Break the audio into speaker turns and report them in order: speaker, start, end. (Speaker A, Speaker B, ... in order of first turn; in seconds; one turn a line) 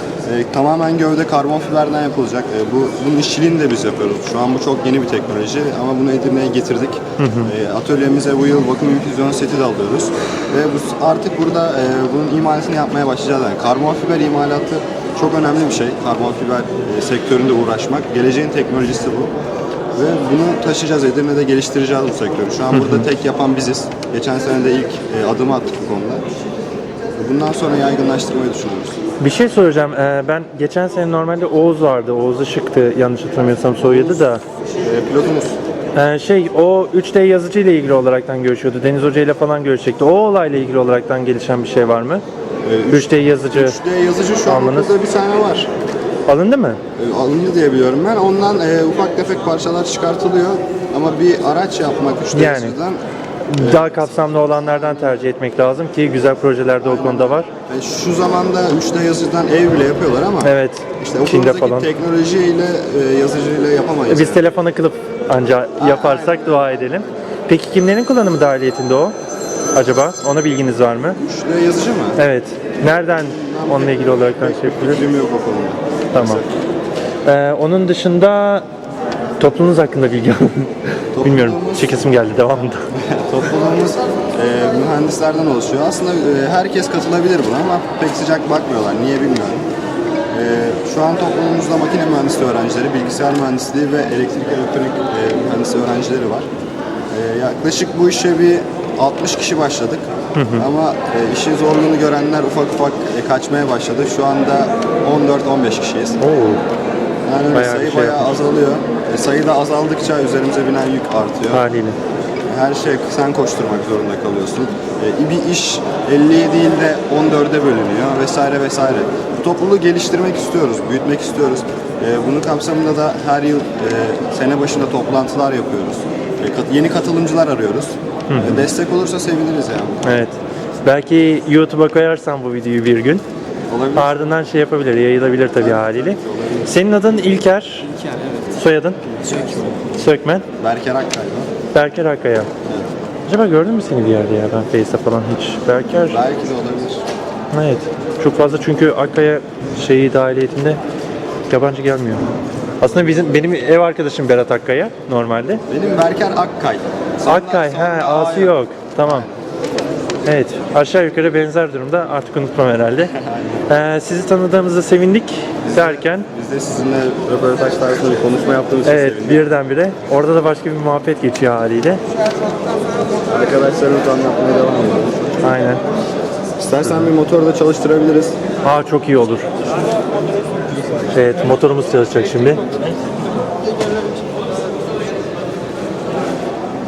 Speaker A: 0.2-19.3
Speaker B: 7.2-7.5
Speaker A: 19.9-26.2
Speaker B: 22.7-23.1
Speaker A: 27.2-29.0
Speaker B: 29.2-34.4
Speaker A: 33.9-34.1
Speaker A: 34.8-35.6
Speaker B: 36.0-42.2
Speaker A: 42.6-45.7
Speaker B: 42.9-43.8
Speaker B: 44.5-44.9
Speaker B: 46.3-46.8
Speaker A: 47.0-53.0
Speaker B: 52.3-52.8
Speaker B: 53.5-57.5
Speaker A: 53.6-54.1
Speaker A: 54.8-55.1
Speaker A: 56.8-64.4
Speaker B: 60.4-61.9
Speaker B: 64.1-69.2
Speaker A: 65.8-67.2
Speaker B: 69.8-71.2
Speaker A: 71.2-72.2
Speaker B: 72.2-75.1
Speaker A: 73.2-76.5
Speaker B: 76.1-76.4
Speaker B: 77.3-78.7
Speaker B: 79.4-82.8
Speaker A: 81.1-82.0
Speaker A: 82.9-89.7
Speaker A: 90.3-96.5
Speaker A: 97.1-106.2
Speaker B: 100.4-100.7
Speaker B: 106.2-106.6
Speaker A: 107.2-111.7
Speaker B: 107.5-108.3
Speaker B: 111.5-112.0
Speaker A: 112.5-130.2
Speaker B: 128.3-128.6
Speaker B: 130.0-133.2
Speaker A: 133.7-134.3
Speaker B: 133.9-137.9
Speaker A: 135.6-136.7
Speaker B: 138.5-139.0
Speaker A: 139.2-139.8
Speaker B: 139.9-140.4
Speaker A: 140.6-141.5
Speaker B: 141.7-142.5
Speaker A: 142.7-142.9
Speaker B: 143.3-146.2
Speaker A: 146.1-147.0
Speaker B: 147.5-150.8
Speaker B: 151.5-152.2
Speaker B: 152.8-155.6
Speaker A: 155.7-159.4
Speaker B: 157.3-159.3
Speaker B: 160.2-163.1
Speaker A: 163.1-163.7
Speaker B: 163.7-166.3
Speaker A: 165.6-169.4
Speaker B: 168.8-172.0
Speaker A: 173.3-175.6
Speaker B: 175.4-175.8
Speaker A: 176.6-178.4
Speaker B: 178.6-179.5
Speaker B: 181.1-182.7